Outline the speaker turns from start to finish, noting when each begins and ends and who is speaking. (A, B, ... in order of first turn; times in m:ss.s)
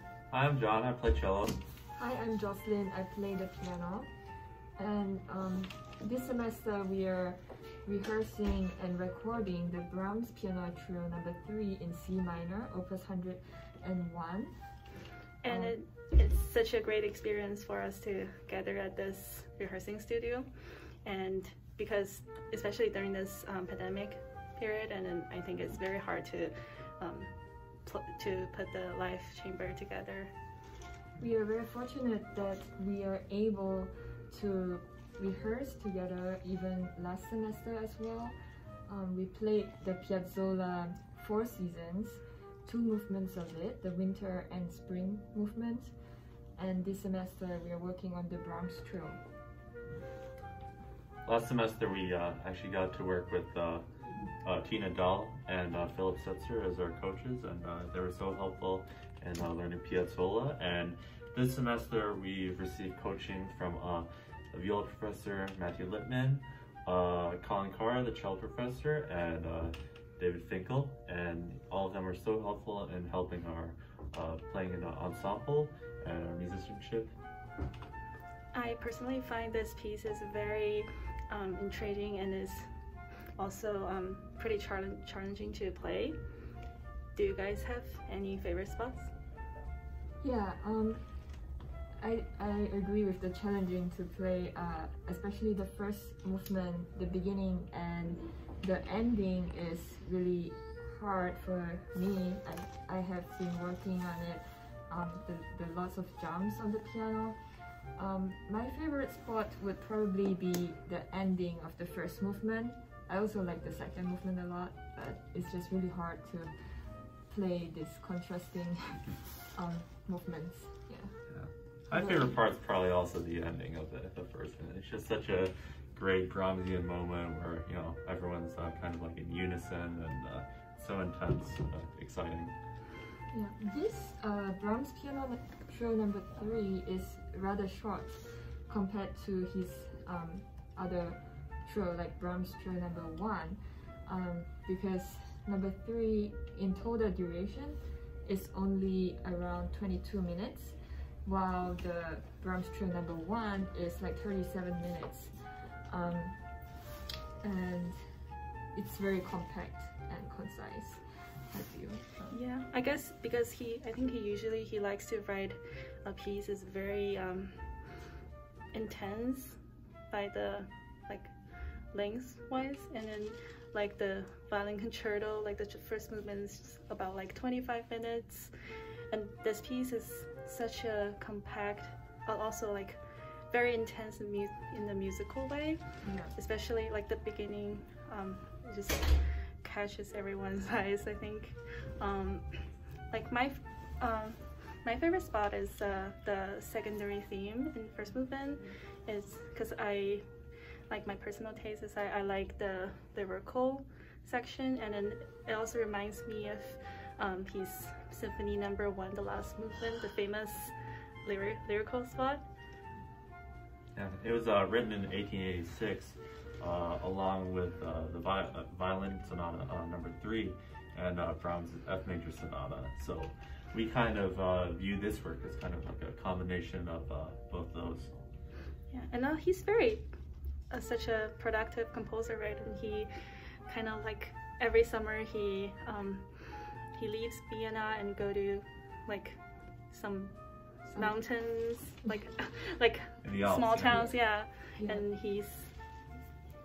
0:00.3-0:01.6 A
0:02.0-0:04.1 B
0:04.8-0:14.5 B
0:15.4-0:30.3 C
0:15.5-0:15.8 B
0:31.2-0:45.9 B
0:46.6-0:49.2 B
0:51.2-0:53.8 A
0:54.4-1:17.1 A
1:18.5-1:22.7 C
1:23.4-1:26.2 C
1:27.1-1:29.1 C
1:30.2-1:31.2 B
1:32.0-2:01.2 B
2:01.3-2:12.5 A
2:01.9-2:02.4 B
2:13.3-2:36.7 B
2:37.4-2:38.0 B
2:38.7-2:42.4 B
2:42.3-2:47.9 C
2:48.7-2:49.6 C
2:50.1-2:51.3 C
2:51.9-3:20.2 C
3:06.0-3:06.3 B
3:20.9-3:32.4 C
3:33.9-3:48.2 A
3:48.9-3:50.1 C
3:50.7-3:53.1 C
3:53.6-4:05.8 C
4:00.9-4:02.2 B
4:03.2-4:04.2 A
4:03.7-4:05.1 B